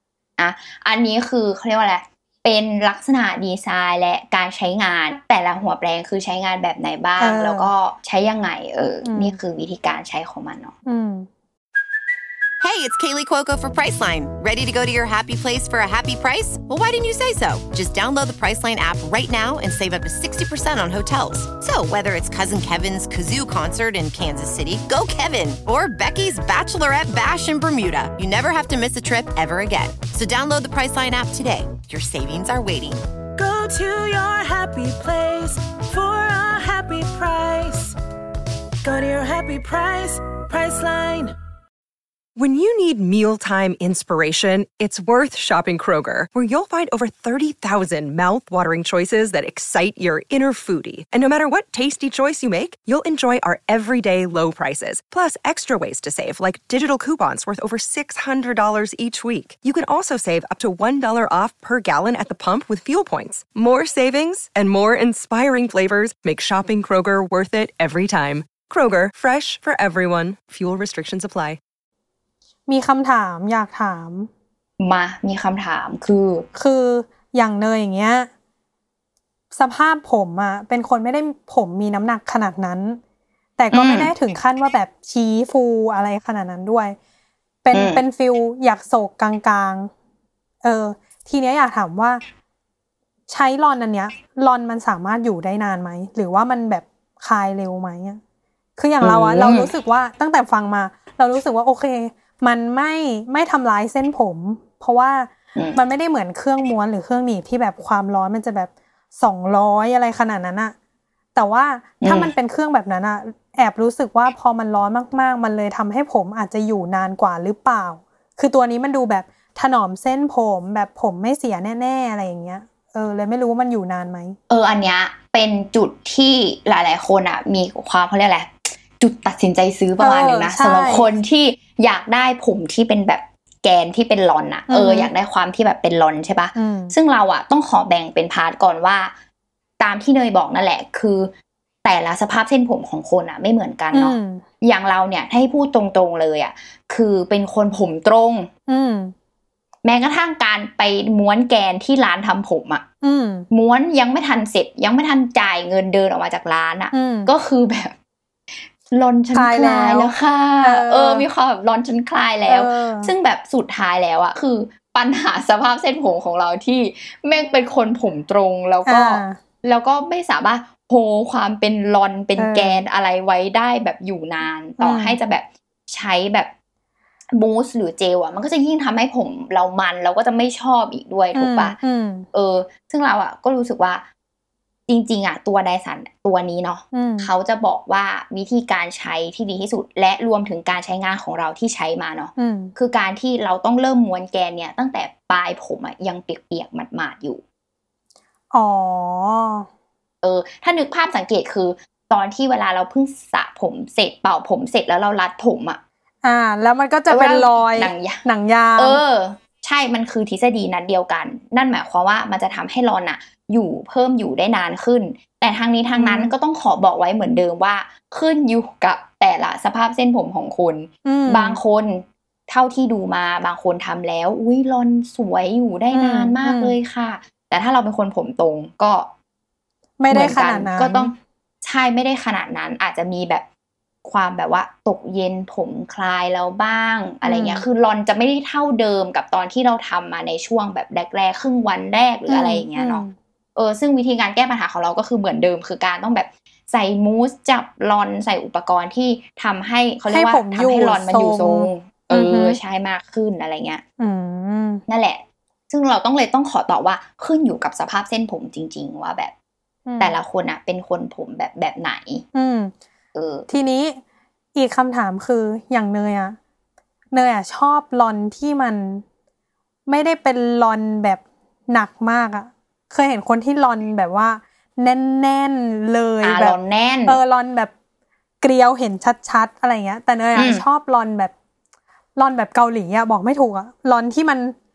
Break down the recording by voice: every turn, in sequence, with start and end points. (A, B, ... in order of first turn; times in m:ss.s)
0:00.4-0:10.7 A
0:07.2-0:07.7 B
0:09.0-0:09.4 B
0:10.8-0:11.3 B
0:12.6-0:33.0 C
0:33.4-0:38.0 D
0:38.8-0:41.3 D
0:42.4-1:11.6 E
1:12.7-1:14.3 B
1:14.8-1:16.5 A
1:16.5-1:18.3 B
1:19.5-1:23.0 B
1:23.6-1:27.0 B
1:23.7-1:24.1 A
1:27.6-1:29.9 B
1:27.7-1:28.0 A
1:30.6-1:32.2 B
1:33.3-1:38.2 B
1:38.8-1:50.7 B
1:39.0-1:39.7 A
1:45.5-1:45.8 A
1:51.3-2:04.4 B
1:52.0-1:52.3 A
2:04.5-2:19.1 A
2:10.0-2:11.1 B
2:14.7-2:15.1 B
2:16.5-2:16.9 B
2:19.8-2:21.3 A
2:21.8-2:28.5 A
2:23.9-2:24.4 B
2:28.7-2:29.1 B
2:29.8-2:32.8 A
2:33.0-2:33.5 B
2:33.5-2:38.0 A
2:36.9-2:37.3 B
2:38.9-2:56.5 A
2:39.3-2:41.3 B
2:42.5-2:43.1 B
2:48.8-2:49.4 B
2:52.4-2:52.8 B
2:54.8-2:55.2 B
2:57.3-3:01.8 A
3:01.3-3:02.3 B
3:02.3-3:04.0 A
3:04.9-3:17.4 A
3:06.9-3:07.3 B
3:12.4-3:12.7 B
3:18.5-3:19.7 B
3:20.2-3:25.8 A
3:26.2-3:29.0 B
3:27.1-3:28.2 A
3:28.8-3:49.1 A
3:35.9-3:36.3 B
3:41.0-3:41.6 B
3:45.9-3:46.8 B
3:50.0-3:51.1 B
3:50.1-3:53.4 A
3:54.0-4:03.0 A
3:57.2-3:57.6 B
4:02.3-4:03.1 B
4:03.6-4:13.8 A
4:10.1-4:12.6 B
4:14.0-4:14.8 B
4:14.9-4:19.3 A
4:19.9-4:20.2 B
4:20.0-4:22.2 A
4:22.3-4:22.7 B
4:23.1-4:23.5 A
4:23.5-4:24.0 B
4:24.5-4:26.4 B
4:27.1-4:29.0 B
4:29.9-4:37.7 B
4:36.2-4:37.2 A
4:38.4-4:41.3 B
4:40.3-4:40.6 A
4:42.2-4:44.5 B